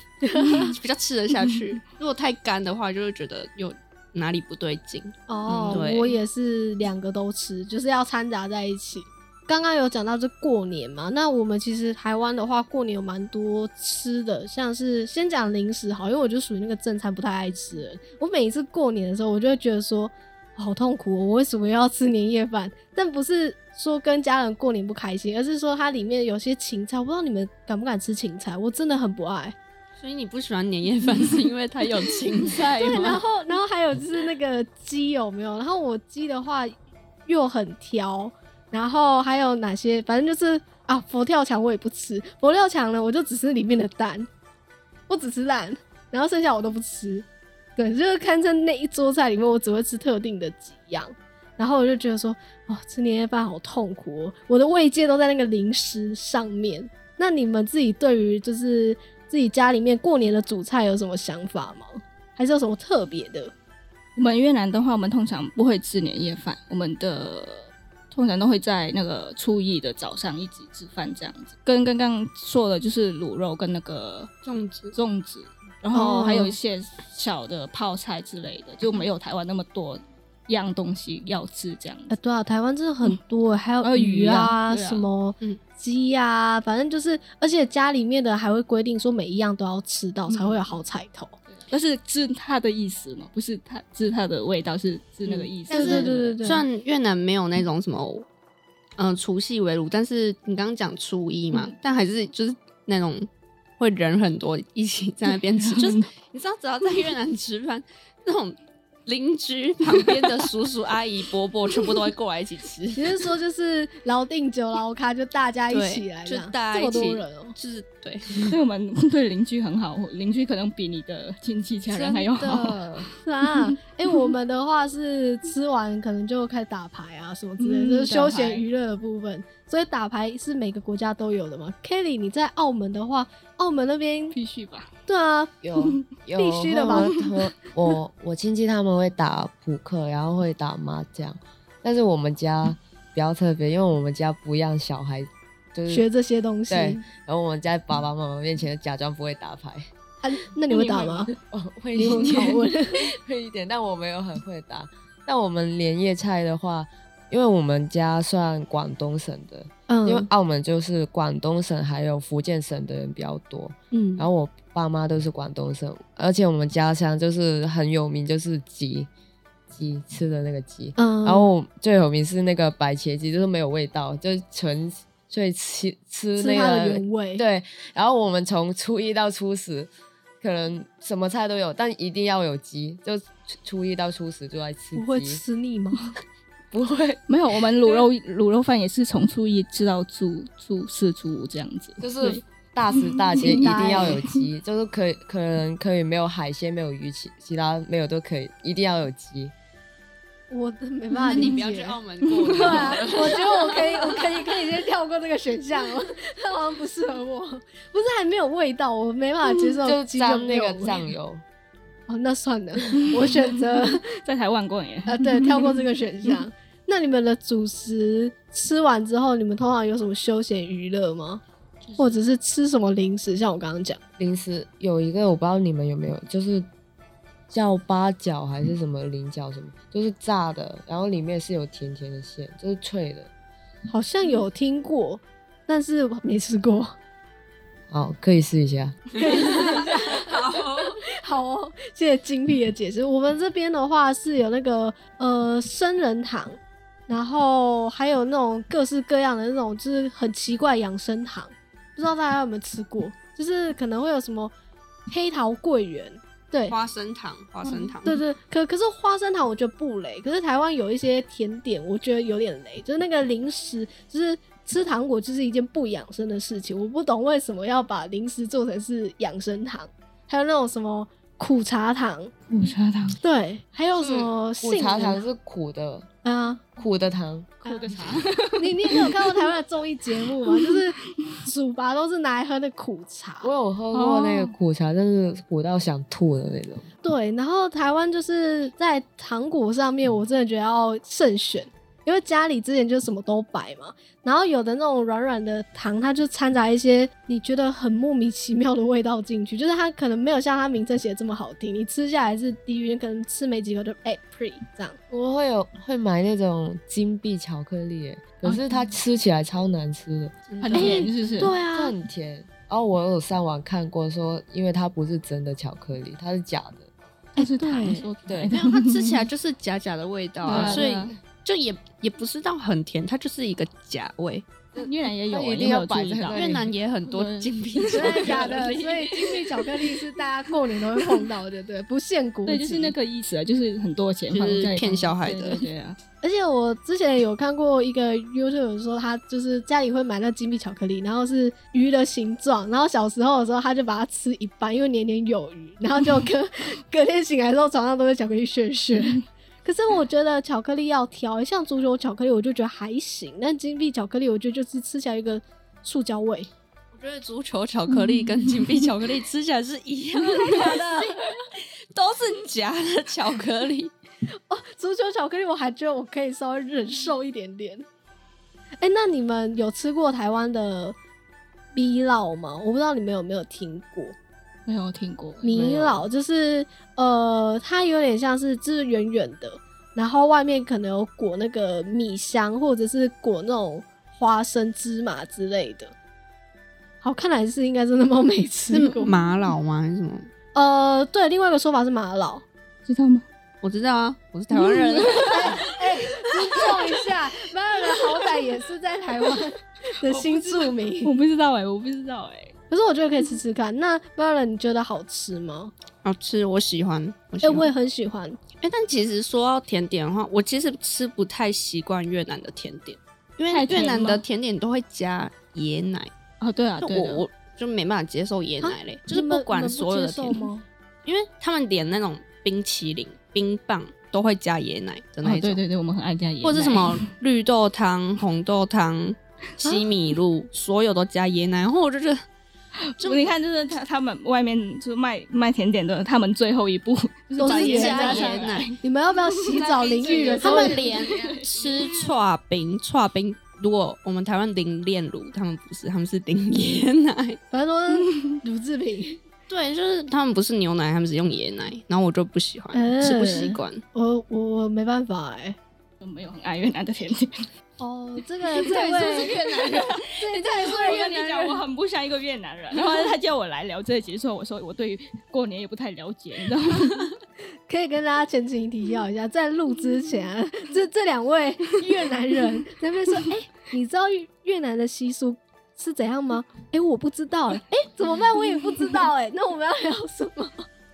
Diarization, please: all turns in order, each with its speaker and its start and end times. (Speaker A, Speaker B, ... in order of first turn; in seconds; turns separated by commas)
Speaker A: 0.2-0.7, Speaker B: 0.7-6.2, Speaker A: 5.3-29.5, Speaker B: 30.0-33.2, Speaker A: 32.6-36.7, Speaker A: 37.2-44.3, Speaker A: 45.1-47.2, Speaker A: 47.8-63.5, Speaker C: 64.2-74.3, Speaker B: 74.4-74.9, Speaker C: 74.9-82.2, Speaker A: 75.9-76.5, Speaker A: 82.1-91.4, Speaker C: 83.8-85.1, Speaker C: 90.3-90.6, Speaker C: 91.5-96.4, Speaker B: 95.2-98.2, Speaker A: 95.7-96.6, Speaker B: 99.0-103.3, Speaker B: 103.8-113.2, Speaker C: 105.6-106.1, Speaker A: 113.0-117.5, Speaker B: 115.7-118.5, Speaker C: 118.5-122.8, Speaker B: 121.9-122.4, Speaker A: 122.4-134.3, Speaker C: 127.6-128.6, Speaker C: 134.3-134.9, Speaker A: 135.1-135.5, Speaker D: 135.6-146.1, Speaker A: 136.3-137.2, Speaker A: 145.9-147.0, Speaker D: 146.7-149.9, Speaker A: 150.2-151.3, Speaker C: 150.7-151.3, Speaker D: 151.5-169.1, Speaker A: 151.9-153.1, Speaker A: 159.9-160.3, Speaker A: 163.9-164.3, Speaker D: 169.7-179.9, Speaker A: 171.0-171.5, Speaker A: 176.4-177.4, Speaker D: 180.4-185.4, Speaker A: 184.9-186.1, Speaker D: 186.7-187.2, Speaker C: 187.3-192.4, Speaker D: 192.0-199.5, Speaker C: 192.9-194.3, Speaker A: 193.4-194.2, Speaker A: 200.5-202.0, Speaker B: 201.2-204.1, Speaker C: 202.2-203.0, Speaker A: 202.5-211.1, Speaker D: 209.8-211.4, Speaker A: 212.1-214.0, Speaker C: 213.0-216.4, Speaker A: 215.1-221.4, Speaker C: 221.9-222.2, Speaker A: 222.0-224.0, Speaker D: 224.2-226.7, Speaker D: 227.5-233.3, Speaker A: 233.9-236.9, Speaker D: 237.9-239.0, Speaker B: 239.1-241.0, Speaker A: 239.2-254.5, Speaker A: 255.1-256.8, Speaker B: 256.7-258.2, Speaker A: 258.0-272.3, Speaker C: 272.5-273.2, Speaker A: 273.2-275.2, Speaker B: 274.0-274.3, Speaker D: 274.6-276.1, Speaker A: 276.2-276.6, Speaker D: 276.8-277.6, Speaker C: 277.6-279.5, Speaker A: 277.6-277.9, Speaker A: 278.6-283.5, Speaker D: 283.4-286.9, Speaker C: 283.9-284.5, Speaker A: 287.0-305.0, Speaker D: 305.1-310.3, Speaker C: 308.4-308.7, Speaker B: 310.5-311.3, Speaker C: 310.6-311.6, Speaker A: 310.7-311.9, Speaker D: 311.7-316.9, Speaker A: 317.4-318.1, Speaker C: 317.4-319.2, Speaker D: 318.3-318.5, Speaker B: 318.5-324.4, Speaker C: 320.4-321.1, Speaker A: 320.5-320.8, Speaker D: 324.7-326.7, Speaker C: 324.8-326.5, Speaker B: 326.3-328.7, Speaker C: 327.1-330.0, Speaker A: 327.9-332.9, Speaker C: 330.9-331.2, Speaker C: 332.4-336.0, Speaker B: 334.3-335.6, Speaker A: 336.2-356.5, Speaker B: 356.9-363.9, Speaker A: 360.4-361.1, Speaker C: 360.5-360.7, Speaker A: 364.5-367.8, Speaker A: 368.8-370.9, Speaker A: 371.7-374.1, Speaker C: 374.6-375.5, Speaker A: 375.4-385.9, Speaker D: 375.4-376.1, Speaker A: 387.0-389.1, Speaker B: 388.7-390.3, Speaker A: 390.5-392.4, Speaker C: 392.9-393.2, Speaker B: 393.6-395.6, Speaker C: 394.5-396.9, Speaker A: 395.3-401.1, Speaker C: 400.1-402.5, Speaker A: 402.7-405.7, Speaker B: 406.0-407.7, Speaker A: 407.4-408.4, Speaker B: 408.6-416.1, Speaker C: 413.5-414.2, Speaker C: 416.4-417.2, Speaker B: 416.8-420.4, Speaker A: 418.6-420.6, Speaker B: 421.0-425.6, Speaker C: 425.2-427.0, Speaker B: 426.4-432.2, Speaker C: 432.8-442.1, Speaker B: 433.0-433.3, Speaker A: 437.4-440.9, Speaker B: 437.4-438.7, Speaker B: 439.6-447.4, Speaker D: 440.1-440.3, Speaker A: 447.5-449.2, Speaker B: 449.5-453.8, Speaker A: 452.7-455.6, Speaker C: 456.0-457.4, Speaker A: 457.8-459.4, Speaker C: 458.6-467.1, Speaker B: 458.6-460.0, Speaker A: 460.2-461.5, Speaker A: 467.7-480.6